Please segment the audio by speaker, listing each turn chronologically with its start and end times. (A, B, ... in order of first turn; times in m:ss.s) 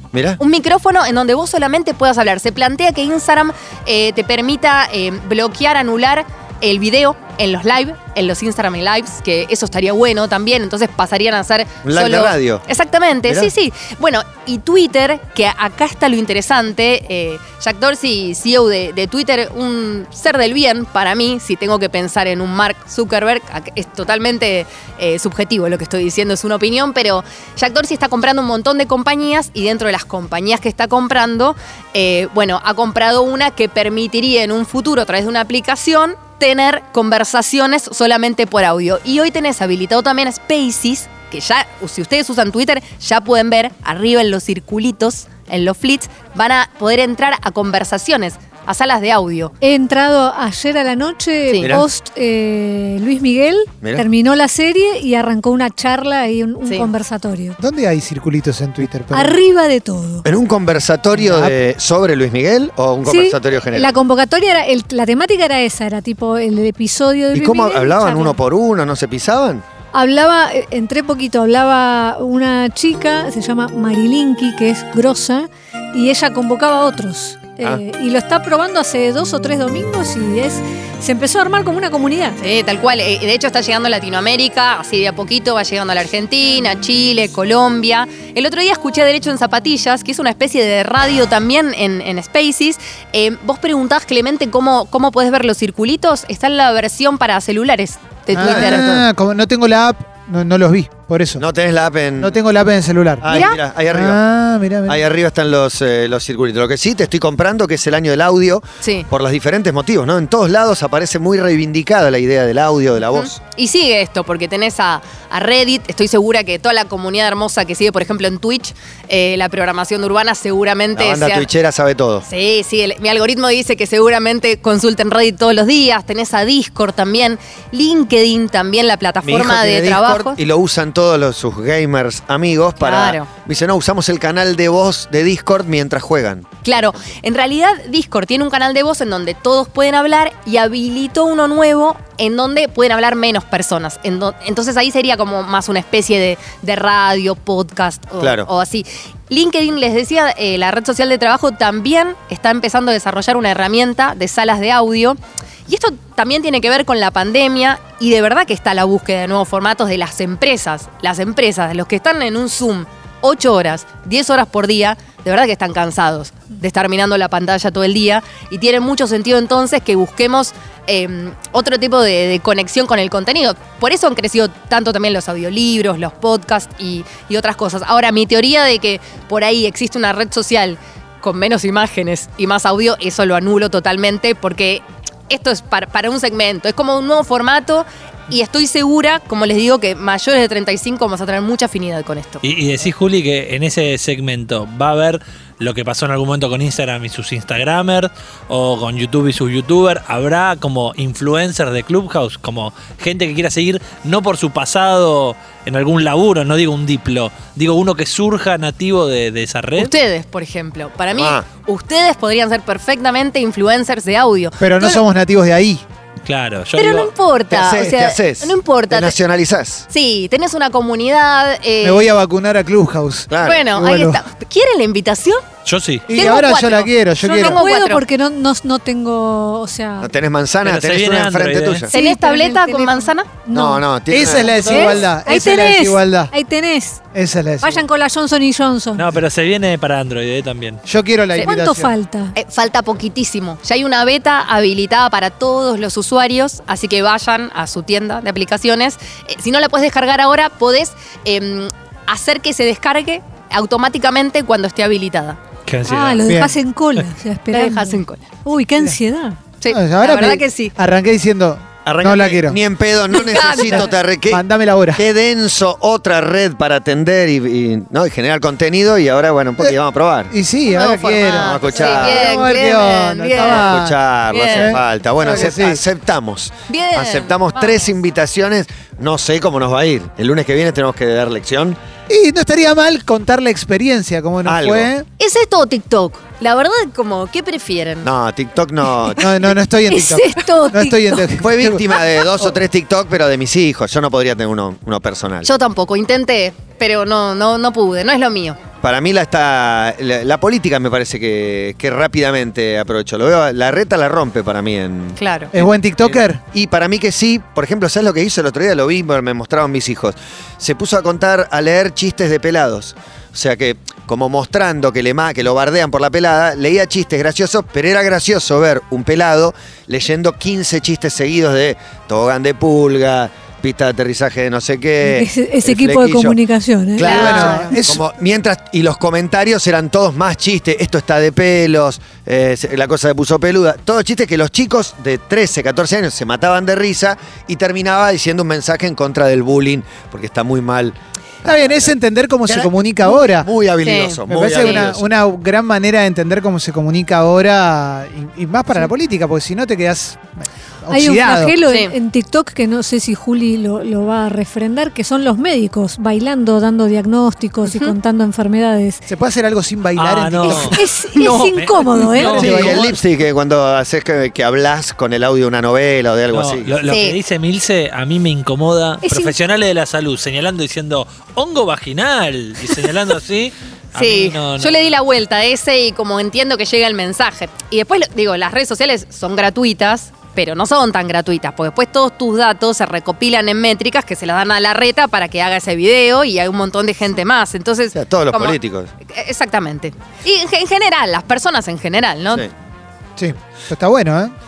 0:00.1-0:00.4 A
0:00.4-0:49.5 B
0:11.8-0:12.6 A
0:13.3-0:13.5 A
0:49.6-0:57.6 C
0:57.6-0:59.4 D
0:59.1-1:00.2 C
1:00.2-1:03.9 A
1:01.1-1:01.6 D
1:03.0-1:08.4 C
1:07.3-1:09.6 A
1:09.9-1:22.4 C
1:22.4-1:38.8 B
1:38.3-1:41.4 D
1:38.5-1:39.0 A
1:41.4-1:42.3 A
1:42.2-1:43.4 D
1:43.2-1:44.2 A
1:43.3-1:43.6 B
1:43.9-1:45.0 D
1:44.9-1:53.4 A
1:48.8-1:49.1 B
1:53.0-2:01.5 B
2:00.9-2:02.2 A
2:02.2-2:10.4 B
2:09.2-2:16.5 A
2:12.8-2:13.3 B
2:16.6-3:12.4 B
2:28.2-2:28.5 A
3:12.4-3:29.9 E
3:29.8-3:35.0 B
3:31.1-3:31.5 A
3:34.6-3:35.8 D
3:36.2-3:37.1 E
3:36.8-3:39.2 B
3:37.5-3:39.8 A
3:39.9-3:42.1 B
3:41.8-3:44.2 D
3:43.3-3:43.6 A
3:43.4-3:45.4 B
3:45.6-3:46.1 E
3:46.1-3:47.6 D
3:46.1-3:48.0 B
3:47.2-3:50.1 C
3:50.0-3:51.9 A
3:50.6-3:51.8 E
3:51.9-3:57.0 C
3:51.9-3:53.4 B
3:53.5-3:54.8 A
3:54.1-3:56.3 D
3:57.1-3:57.8 D
3:57.6-3:59.1 C
3:59.0-4:00.8 E
4:00.8-4:01.9 D
4:01.4-4:02.3 C
4:02.3-4:15.4 B
4:15.6-4:16.3 E
4:15.8-4:19.4 C
4:16.3-4:16.6 D
4:17.5-4:18.4 B
4:19.5-4:20.7 B
4:19.7-4:22.6 D
4:21.8-4:24.4 A
4:23.3-4:25.0 D
4:23.4-4:23.9 B
4:25.0-4:30.3 A
4:30.3-4:34.0 D
4:30.6-4:33.7 B
4:31.4-4:32.3 A
4:33.4-4:41.8 A
4:34.3-4:34.6 B
4:34.5-4:35.8 D
4:36.7-4:37.9 B
4:42.1-4:45.1 D
4:44.4-4:44.9 A
4:45.2-4:48.1 B
4:48.0-4:49.2 A
4:49.2-4:52.5 D
4:49.9-4:51.3 C
4:50.4-4:50.6 B
4:51.4-4:55.5 A
4:55.4-4:58.6 B
4:58.8-5:26.4 A
5:05.2-5:05.5 B
5:05.5-5:06.4 D
5:25.0-5:27.1 C
5:27.0-5:41.9 A
5:27.0-5:28.0 D
5:27.0-5:27.6 B
5:41.4-5:43.5 D
5:42.5-5:45.1 A
5:43.8-5:44.9 B
5:44.3-5:51.6 D
5:50.9-5:59.0 C
5:51.7-5:51.9 B
5:57.7-5:58.0 B
5:59.1-6:01.0 D
5:59.9-6:02.8 E
6:00.7-6:02.4 C
6:02.0-6:03.0 D
6:02.4-6:06.8 A
6:06.3-6:14.9 E
6:06.9-6:07.2 B
6:09.0-6:09.4 C
6:13.9-6:32.5 B
6:27.9-6:28.9 A
6:33.2-6:34.3 D